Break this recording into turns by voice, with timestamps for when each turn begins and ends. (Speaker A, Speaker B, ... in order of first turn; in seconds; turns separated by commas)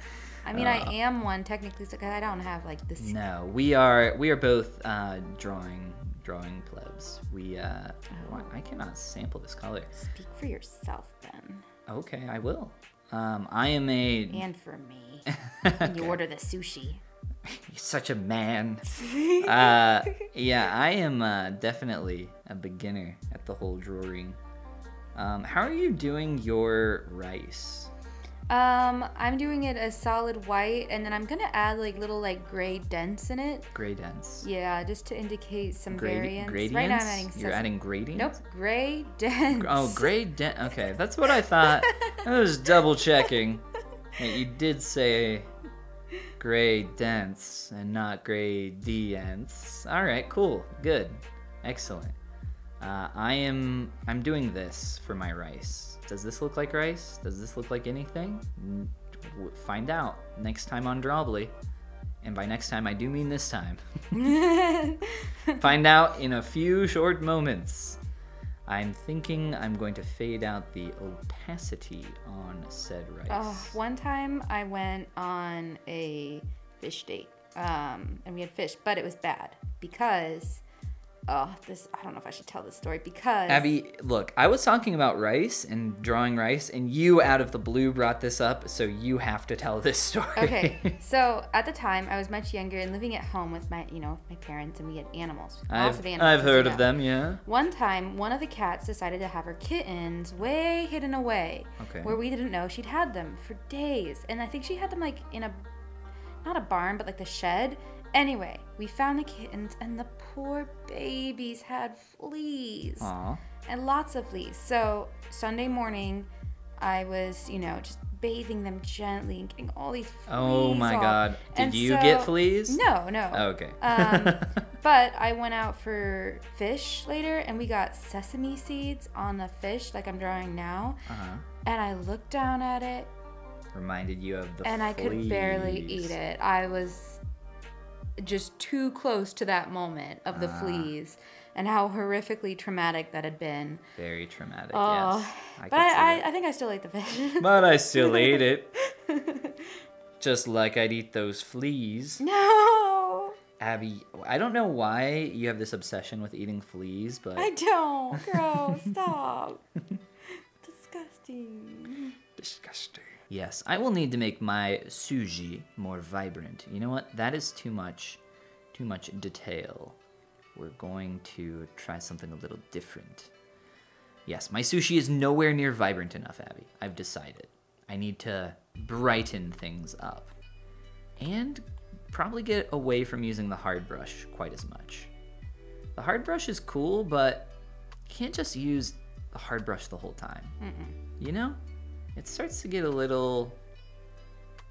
Speaker A: 0.5-3.2, Speaker B: 0.5-0.9, Speaker B: 3.0-9.9, Speaker A: 8.1-8.5, Speaker A: 9.9-11.7, Speaker B: 11.9-14.5, Speaker A: 14.3-15.3, Speaker B: 15.3-16.2, Speaker A: 15.8-17.0, Speaker B: 17.4-24.4, Speaker A: 18.9-20.3, Speaker B: 25.1-27.9, Speaker A: 28.5-33.7, Speaker B: 33.7-34.5, Speaker A: 34.4-40.1, Speaker B: 35.9-38.4, Speaker B: 39.5-43.6, Speaker A: 41.6-42.2, Speaker B: 44.2-45.5, Speaker B: 46.4-52.1, Speaker B: 52.8-61.5, Speaker B: 62.2-64.2, Speaker A: 64.1-65.7, Speaker B: 65.6-68.0, Speaker B: 68.7-73.8, Speaker A: 73.3-80.6, Speaker A: 81.3-83.7, Speaker B: 83.5-91.0, Speaker A: 90.4-96.9, Speaker B: 95.7-97.4, Speaker A: 97.4-105.6, Speaker B: 101.8-102.2, Speaker A: 106.4-113.1, Speaker B: 113.0-113.4, Speaker A: 113.7-131.0, Speaker B: 120.3-122.8, Speaker B: 123.3-124.6, Speaker B: 131.1-131.5, Speaker A: 131.7-133.1, Speaker B: 133.7-136.2, Speaker A: 134.6-137.2, Speaker A: 138.2-143.8, Speaker B: 140.3-140.9, Speaker B: 144.0-146.2, Speaker A: 144.7-149.8, Speaker B: 147.4-148.7, Speaker B: 150.2-152.2, Speaker A: 152.2-153.4, Speaker B: 153.6-157.5, Speaker A: 157.4-159.6, Speaker B: 158.1-159.0, Speaker A: 160.6-162.2, Speaker B: 162.4-168.2, Speaker B: 168.7-170.0, Speaker B: 170.6-173.3, Speaker B: 174.3-180.3, Speaker B: 181.2-185.1, Speaker B: 186.0-187.5, Speaker B: 188.1-190.6, Speaker A: 190.6-191.0, Speaker B: 191.2-191.6, Speaker B: 192.2-193.6